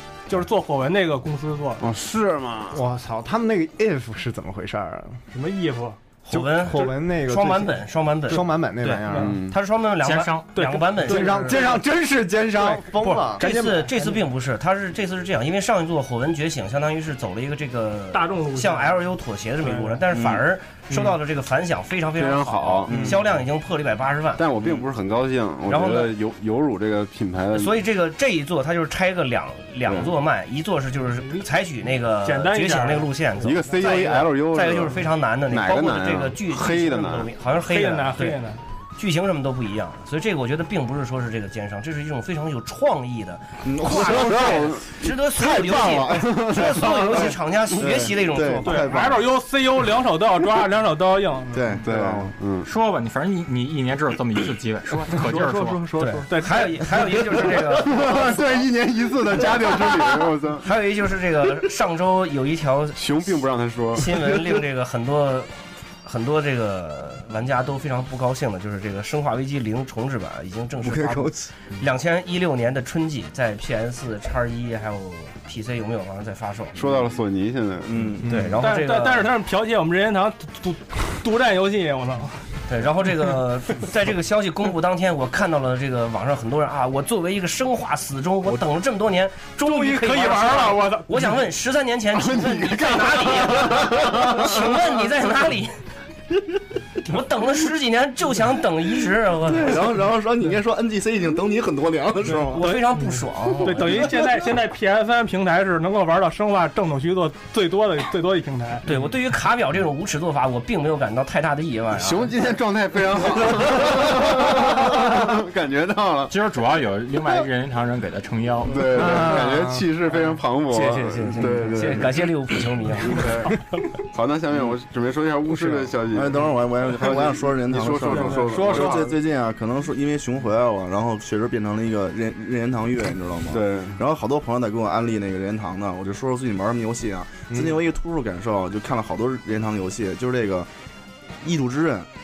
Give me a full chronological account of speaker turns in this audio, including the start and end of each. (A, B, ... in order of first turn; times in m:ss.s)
0:00.3-0:01.8 A
0:01.8-0:02.8 B
0:02.7-0:05.2 C
0:05.3-0:06.0 A
0:06.2-0:11.7 D
0:06.3-0:09.4 C
0:09.1-0:09.4 A
0:09.2-0:09.6 B
0:10.0-0:10.6 E
0:10.5-0:11.8 A
0:11.0-0:13.9 C
0:13.0-0:13.4 F
0:13.0-0:24.4 D
0:18.1-0:19.0 A
0:19.6-0:20.1 A
0:20.1-0:20.4 F
0:22.2-0:23.2 B
0:22.9-0:23.2 F
0:24.4-0:27.8 B
0:24.6-0:24.8 F
0:25.7-0:26.2 D
0:27.5-0:38.4 D
0:29.9-0:30.1 B
0:31.2-0:31.5 A
0:32.2-0:33.7 A
0:33.4-0:37.3 B
0:37.7-0:38.6 A
0:39.0-0:48.9 D
0:43.6-0:49.3 F
0:43.8-0:44.9 B
0:46.0-0:46.8 B
0:48.6-0:51.7 A
0:51.5-0:52.4 F
0:51.8-0:52.7 B
0:52.6-0:55.8 E
0:55.2-0:56.0 F
0:56.0-0:57.1 A
0:56.0-0:58.4 D
0:57.8-1:00.6 B
1:00.6-1:03.0 D
1:03.0-1:04.4 B
1:03.9-1:05.5 D
1:06.0-1:16.8 D
1:10.8-1:11.5 F
1:16.8-1:18.1 B
1:17.9-1:18.4 F
1:18.2-1:19.3 D
1:18.2-1:18.6 C
1:18.6-1:22.5 A
1:22.7-1:35.8 D
1:29.6-1:31.4 A
1:32.1-1:34.8 B
1:37.0-1:39.8 D
1:39.5-1:42.6 F
1:42.3-1:48.9 A
1:42.5-1:44.2 D
1:48.8-1:52.3 D
1:52.0-1:56.3 B
1:56.3-1:59.0 E
1:58.6-2:02.3 B
1:59.0-1:59.8 C
2:00.7-2:03.3 D
2:03.0-2:03.6 B
2:04.1-2:09.1 B
2:06.1-2:20.7 F
2:08.2-2:08.9 A
2:13.5-2:14.0 B
2:21.4-2:22.1 F